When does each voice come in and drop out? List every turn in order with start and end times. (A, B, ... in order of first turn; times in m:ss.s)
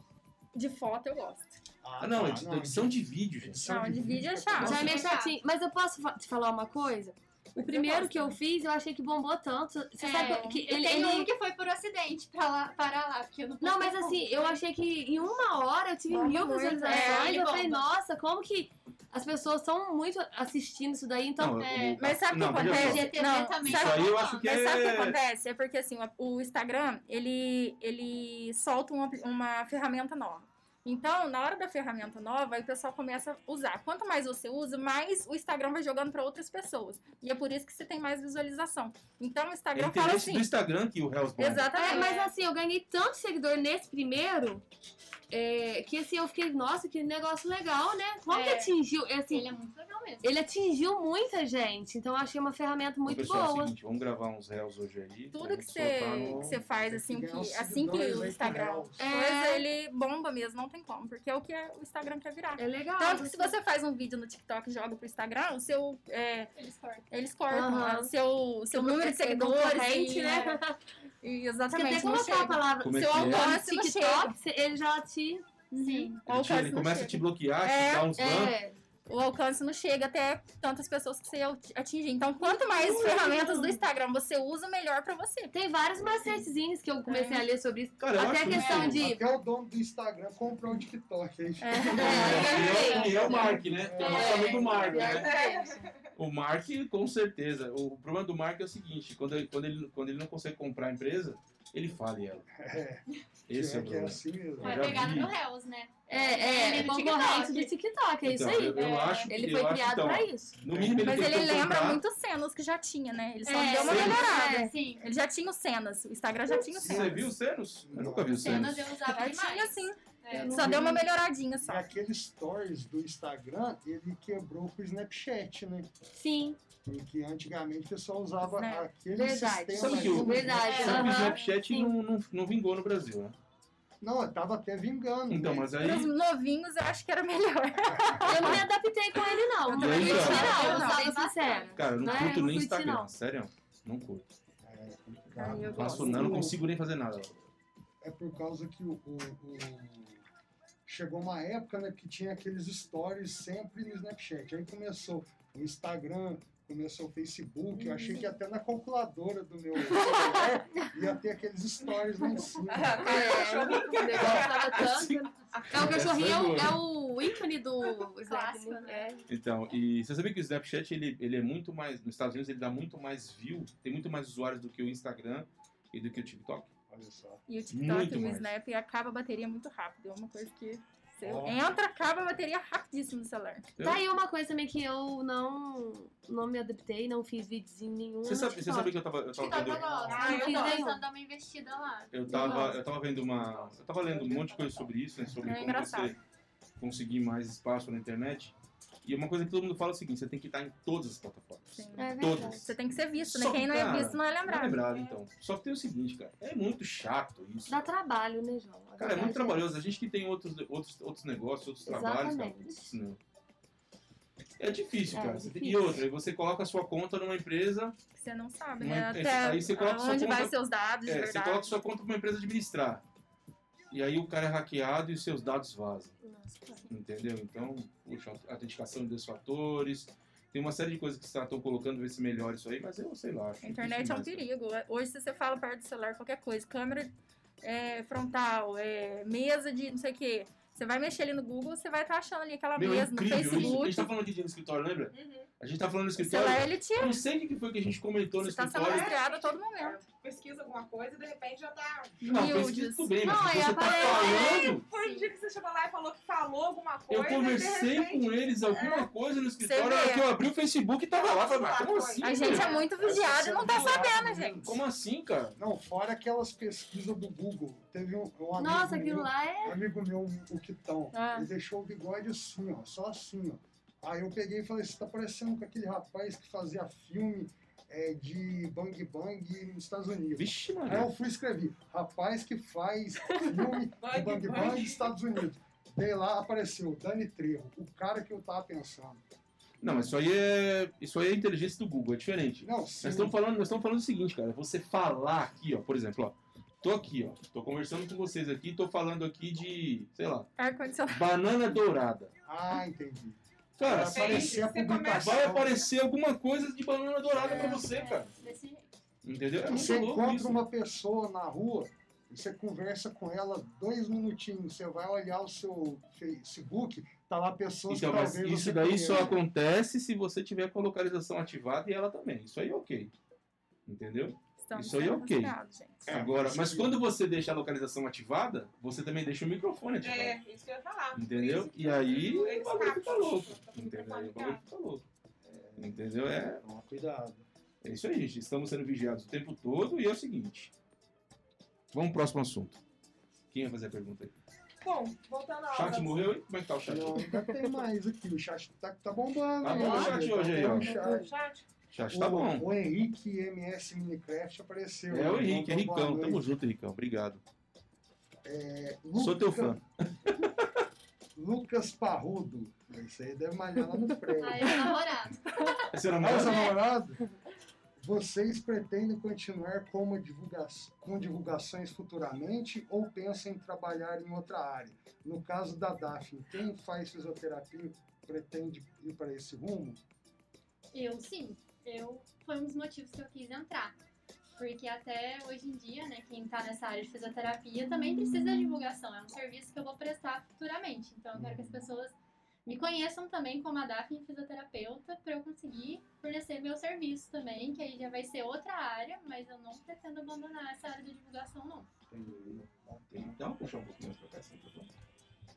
0:00.5-0:01.6 A
0:01.8-0:05.1 B
0:02.0-0:03.6 C
0:03.6-0:05.0 A
0:04.6-0:11.3 D
0:04.7-0:05.4 E
0:07.6-0:08.4 A
0:10.0-0:14.6 E
0:10.0-0:10.6 A
0:13.6-0:21.9 D
0:16.1-0:17.6 A
0:16.7-0:17.9 E
0:21.4-0:25.2 C
0:21.6-0:24.5 E
0:22.0-0:40.5 A
0:39.8-0:41.9 C
0:41.4-0:42.2 A
0:41.8-0:44.6 D
0:41.8-0:42.3 E
0:45.3-0:49.6 D
0:48.3-0:48.7 E
0:49.3-0:50.3 E
0:50.2-0:53.7 D
0:53.1-0:56.6 C
0:55.3-1:06.5 A
0:56.3-0:59.0 B
0:59.0-0:59.6 D
1:02.6-1:03.6 D
1:06.6-1:07.1 E
1:07.1-1:10.6 A
1:07.5-1:08.1 D
1:08.7-1:10.8 D
1:11.2-1:14.4 A
1:11.7-1:16.1 D
1:12.8-1:13.6 C
1:15.8-1:16.2 E
1:15.8-1:18.1 A
1:16.3-1:18.6 C
1:18.2-1:18.8 D
1:19.1-1:25.5 A
1:22.8-1:23.8 D
1:23.0-1:23.2 C
1:25.5-1:29.3 D
1:27.1-1:27.4 A
1:28.0-1:29.1 C
1:28.8-1:35.2 B
1:31.6-1:32.7 A
1:31.9-1:35.8 D
1:32.0-1:35.3 C
1:35.1-1:36.1 F
1:36.2-1:42.5 C
1:42.6-1:45.2 B
1:43.5-1:45.4 C
1:44.6-1:47.7 E
1:46.1-1:50.6 D
1:48.2-1:52.0 C
1:48.8-1:49.3 E
1:50.7-1:51.3 B
1:51.0-1:57.3 A
1:53.5-1:54.7 D
1:53.6-1:55.1 E
1:53.8-1:54.2 C
1:56.5-1:57.3 B
1:56.8-1:58.9 C
1:57.9-1:58.8 B
1:58.4-2:00.8 E
1:59.1-2:01.9 A
2:00.3-2:01.0 D
2:01.6-2:05.9 B
2:06.1-2:06.6 D
2:06.8-2:11.2 B
2:08.4-2:08.9 A
2:09.2-2:11.9 D
2:09.8-2:13.4 C
2:10.6-2:11.4 E
2:10.7-2:11.2 A
2:14.0-2:15.9 B
2:15.3-2:16.1 C
2:15.8-2:18.7 A
2:17.8-2:18.3 B
2:18.3-2:23.1 D
2:18.4-2:18.7 C
2:19.6-2:21.1 A
2:19.7-2:22.4 E
2:19.8-2:20.7 C
2:21.8-2:24.3 C
2:24.6-2:26.6 B
2:25.4-2:26.6 A
2:25.7-2:27.5 C
2:28.0-2:30.2 B
2:30.9-2:43.3 B
2:37.8-2:38.2 D
2:42.7-2:45.9 F
2:43.0-2:49.2 D
2:44.8-2:46.8 C
2:48.2-2:49.2 E
2:49.3-2:56.7 C
2:56.9-2:57.4 B
2:57.5-3:03.7 A
2:57.7-2:58.5 C
3:01.2-3:01.6 B
3:03.8-3:04.0 C
3:03.8-3:09.0 D
3:08.2-3:10.0 C
3:09.4-3:12.7 E
3:09.8-3:10.1 B
3:09.8-3:11.0 D
3:10.1-3:10.8 F
3:12.1-3:16.2 C
3:12.3-3:12.8 D
3:15.4-3:16.2 A
3:16.8-3:27.9 C
3:21.8-3:24.8 A
3:22.0-3:22.7 D
3:24.9-3:25.2 F
3:27.7-3:29.6 D
3:29.0-3:33.2 C
3:31.9-3:33.0 D
3:34.6-3:38.0 C
3:35.1-3:36.0 D
3:38.2-3:41.8 A
3:38.8-3:43.0 C
3:43.9-3:46.2 C
3:46.2-3:46.9 D
3:46.9-3:54.4 C
3:53.6-4:04.1 A
4:02.8-4:09.2 C
4:05.1-4:05.5 F
4:06.2-4:07.2 A
4:08.4-4:10.0 A
4:08.8-4:12.3 F
4:12.2-4:14.9 C
4:12.2-4:13.2 A
4:13.2-4:14.8 D
4:13.8-4:19.1 F
4:14.5-4:15.3 E
4:17.1-4:22.8 C
4:19.6-4:20.3 A
4:21.1-4:22.9 F
4:22.2-4:24.6 A
4:22.4-4:22.8 E
4:23.0-4:24.8 B
4:24.6-4:25.6 C
4:25.6-4:49.2 B
4:28.6-4:29.8 D
4:31.1-4:31.5 A
4:40.4-4:41.1 C
4:44.0-4:45.1 F
4:49.8-5:00.5 C
4:52.6-4:53.4 B
5:00.6-5:01.3 A
5:01.1-5:02.3 C
5:02.5-5:05.8 B
5:03.8-5:08.3 C
5:03.9-5:05.7 F
5:07.3-5:07.8 B
5:07.4-5:08.9 E
5:09.2-5:10.6 C
5:09.6-5:19.4 B
5:17.9-5:23.1 C
5:23.9-5:30.4 C
5:24.6-5:26.0 A
5:26.1-5:27.0 B
5:30.0-5:34.6 F
5:31.1-5:35.0 C
5:35.4-5:36.0 B
5:35.8-5:36.6 C
5:36.6-5:37.4 B
5:37.8-5:40.7 C
5:41.9-5:42.8 C
5:43.5-5:44.4 C
5:44.8-5:46.3 F
5:45.7-5:47.2 C
5:46.8-5:51.3 B
5:49.6-5:50.9 C
5:49.7-5:51.3 D
5:50.6-5:51.6 F
5:51.9-5:52.7 C
5:52.1-5:56.5 B
5:55.1-5:57.4 C
5:58.4-5:59.8 B
5:59.2-6:00.8 C
6:01.4-6:04.8 B
6:04.4-6:05.9 E
6:05.9-6:06.7 C
6:06.2-6:07.2 B
6:08.0-6:20.0 B
6:20.9-6:24.0 E
6:24.6-6:41.9 E
6:31.4-6:31.8 B
6:42.1-6:43.3 B
6:42.5-6:44.9 C